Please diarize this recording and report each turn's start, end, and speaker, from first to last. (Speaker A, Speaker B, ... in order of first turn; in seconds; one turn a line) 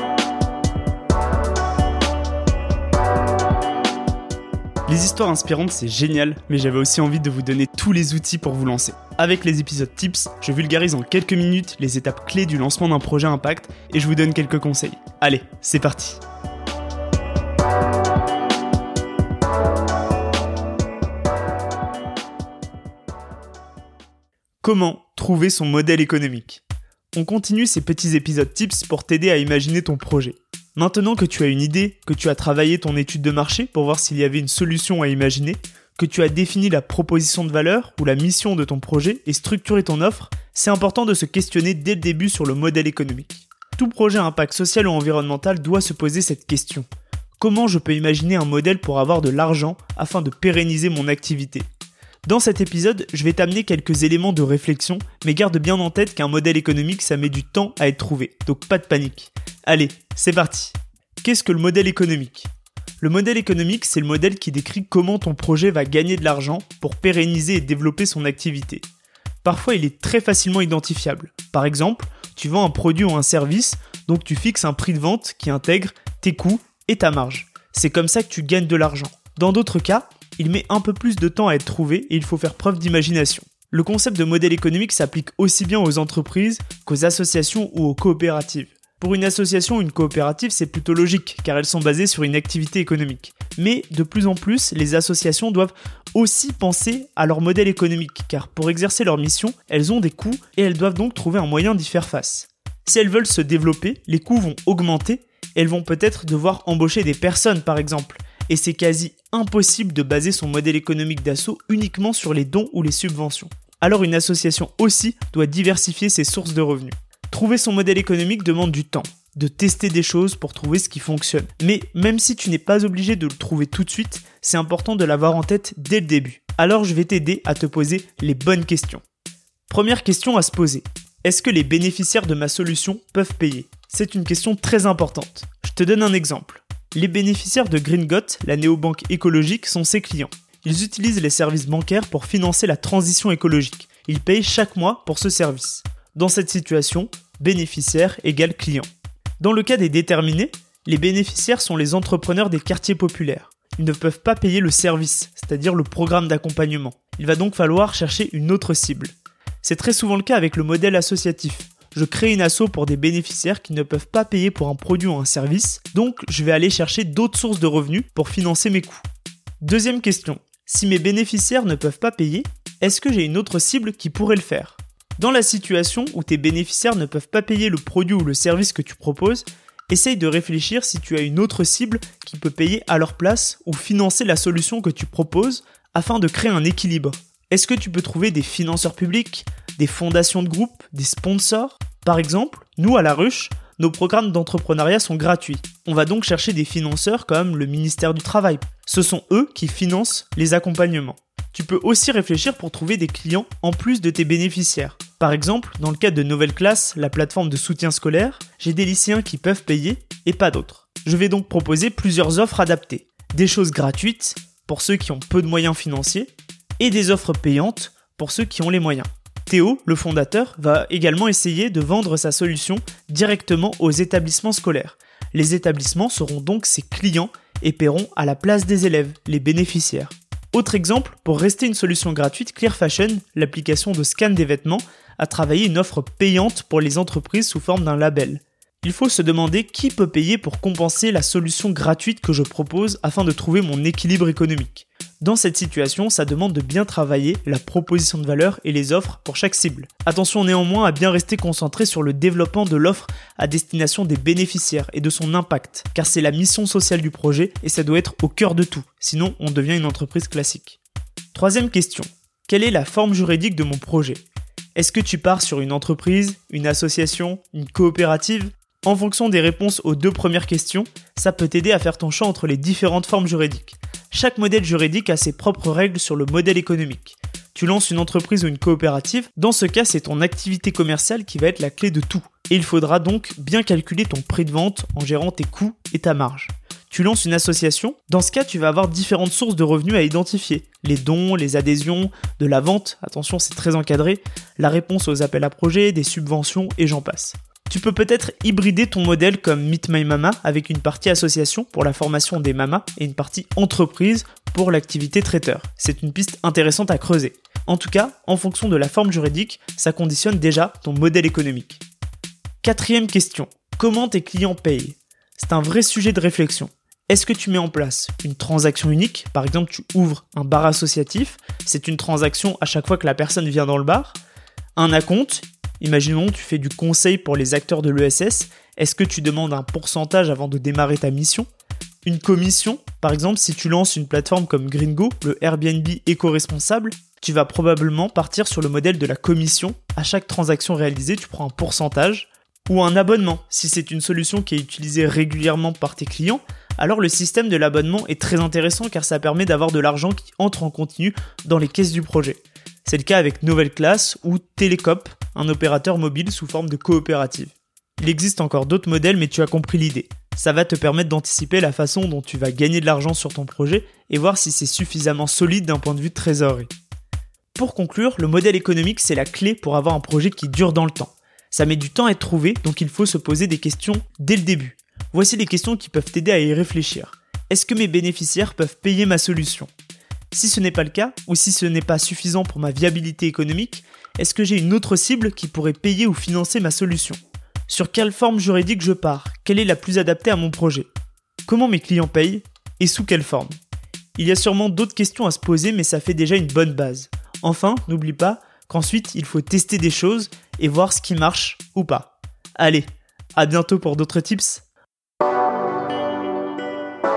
Speaker A: 4.9-16.2
Speaker A: 24.6-26.6
Speaker A: 27.1-46.9
Speaker A: 47.4-51.7
Speaker A: 52.3-62.5
Speaker A: 63.0-68.8
Speaker A: 69.4-129.0
Speaker A: 129.7-148.9
Speaker A: 149.4-169.0
Speaker A: 169.6-260.8
Speaker A: 261.3-264.2
Speaker A: 264.8-311.8
Speaker A: 312.6-324.2
Speaker A: 324.8-331.5
Speaker A: 332.1-366.7
Speaker A: 367.6-379.7
Speaker A: 380.3-390.9
Speaker A: 391.5-393.5
Speaker A: 394.2-404.6